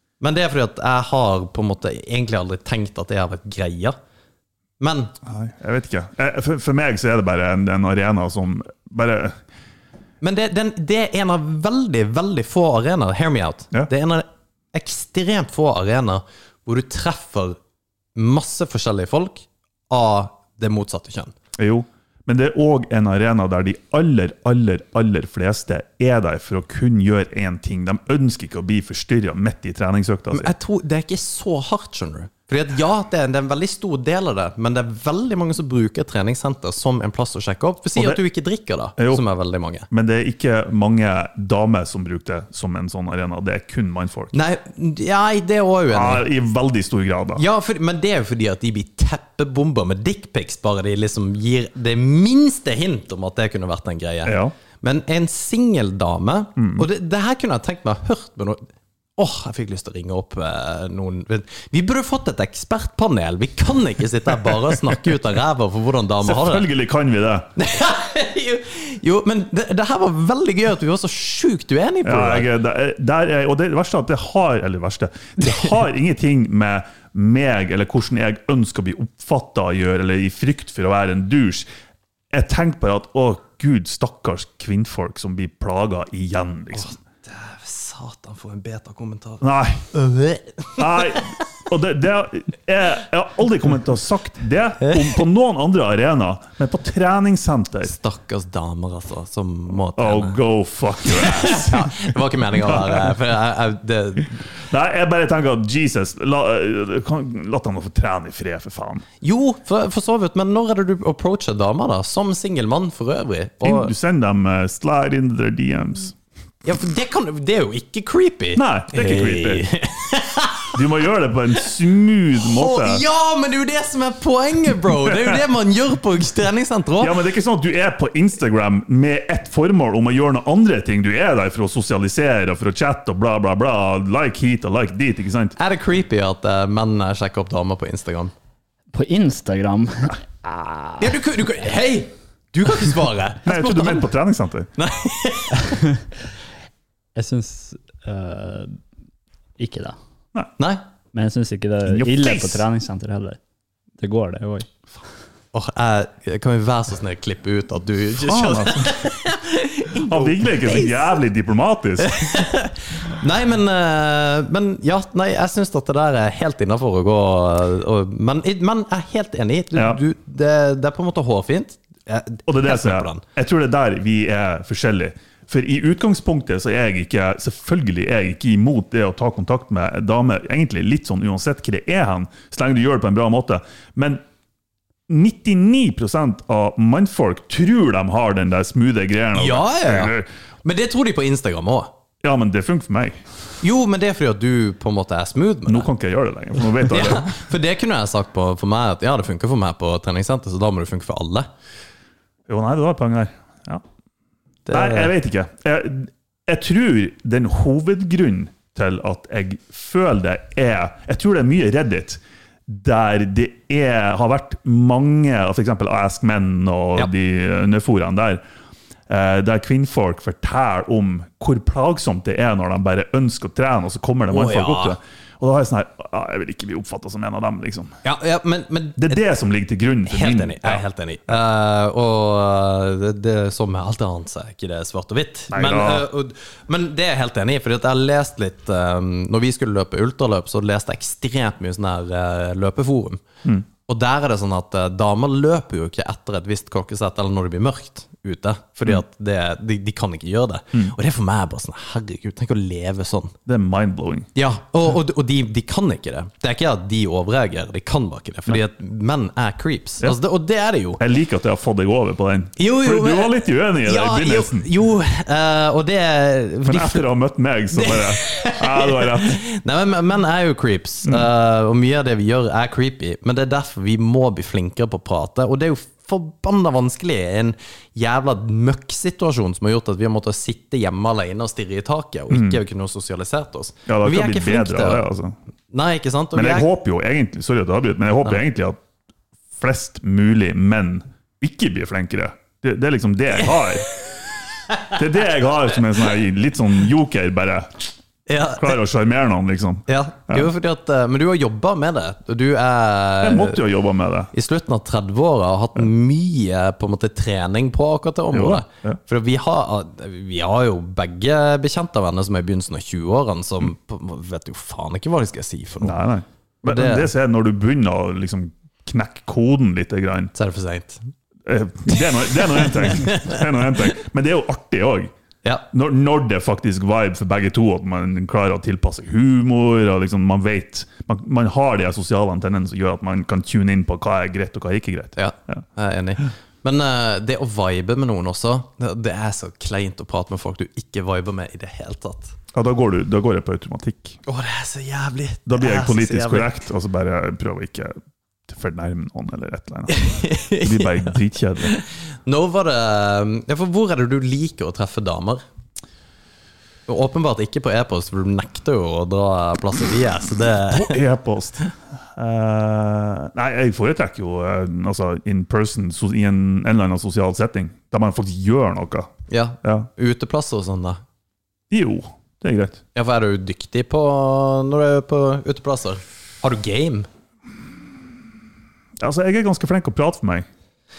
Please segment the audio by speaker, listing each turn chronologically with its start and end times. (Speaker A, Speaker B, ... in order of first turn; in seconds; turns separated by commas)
Speaker A: 0.2-4.0, Speaker A: 4.8-5.1, Speaker B: 5.2-9.4, Speaker A: 10.2-17.6, Speaker A: 18.1-21.3, Speaker B: 21.6-30.5, Speaker A: 30.3-39.9, Speaker B: 37.9-38.2, Speaker B: 39.0-39.2, Speaker B: 39.9-44.3, Speaker A: 44.3-46.2, Speaker B: 45.9-47.4, Speaker A: 47.4-66.7, Speaker B: 54.2-54.5, Speaker B: 56.6-56.9, Speaker B: 66.2-67.5, Speaker A: 67.5-72.5, Speaker B: 72.0-81.7, Speaker B: 82.3-86.9, Speaker A: 86.7-91.3, Speaker B: 89.4-89.8, Speaker B: 90.8-97.9, Speaker A: 94.8-95.2, Speaker A: 97.8-100.4, Speaker B: 100.0-101.9, Speaker A: 101.0-104.5, Speaker B: 102.6-103.2, Speaker B: 104.7-109.0, Speaker A: 109.2-113.9, Speaker B: 113.6-116.1, Speaker A: 116.6-120.8, Speaker B: 118.5-119.7, Speaker B: 120.7-123.0, Speaker A: 122.4-127.1, Speaker B: 125.1-125.4, Speaker B: 127.0-135.5, Speaker A: 135.6-138.3, Speaker C: 138.9-141.0, Speaker A: 141.0-144.1, Speaker B: 143.4-144.7, Speaker A: 144.8-145.8, Speaker C: 147.2-148.8, Speaker C: 149.6-150.0, Speaker A: 150.6-150.8, Speaker C: 151.1-153.4, Speaker B: 151.8-152.6, Speaker C: 154.0-154.7, Speaker A: 155.5-161.2, Speaker B: 158.2-158.9, Speaker B: 160.0-162.3, Speaker A: 162.0-173.2, Speaker B: 169.7-170.0, Speaker B: 172.5-184.2, Speaker B: 185.1-190.3, Speaker A: 189.3-191.9, Speaker B: 192.2-193.2, Speaker A: 193.6-195.9, Speaker B: 195.7-197.4, Speaker A: 196.8-201.5, Speaker B: 202.5-203.8, Speaker A: 204.7-205.1, Speaker B: 204.7-218.4, Speaker B: 219.1-227.9, Speaker A: 224.3-225.0, Speaker A: 228.0-229.2, Speaker B: 229.0-230.8, Speaker A: 230.1-243.2, Speaker B: 235.5-236.1, Speaker A: 243.8-253.3, Speaker B: 253.4-254.3, Speaker A: 254.3-261.0, Speaker B: 261.0-264.7, Speaker A: 262.6-267.1, Speaker B: 266.6-269.4, Speaker A: 267.7-285.0, Speaker B: 282.3-282.6, Speaker B: 283.9-285.3, Speaker A: 285.7-286.7, Speaker B: 286.3-288.8, Speaker B: 289.6-293.9, Speaker B: 294.8-297.9, Speaker A: 298.3-298.8, Speaker B: 298.6-300.5, Speaker A: 299.9-303.6, Speaker B: 303.2-304.3, Speaker A: 304.3-316.0, Speaker B: 308.3-309.0, Speaker B: 315.8-320.3, Speaker A: 316.6-317.1, Speaker A: 320.3-321.1, Speaker B: 321.4-325.1, Speaker A: 321.9-323.4, Speaker B: 325.7-335.6, Speaker A: 335.1-342.4, Speaker B: 342.5-344.2, Speaker A: 344.2-346.5, Speaker B: 345.4-347.9, Speaker B: 348.5-351.8, Speaker A: 349.9-355.4, Speaker A: 356.9-361.0, Speaker B: 360.6-369.1, Speaker A: 369.3-371.0, Speaker B: 369.6-369.9, Speaker B: 371.7-372.8, Speaker A: 372.9-377.1, Speaker B: 379.0-380.4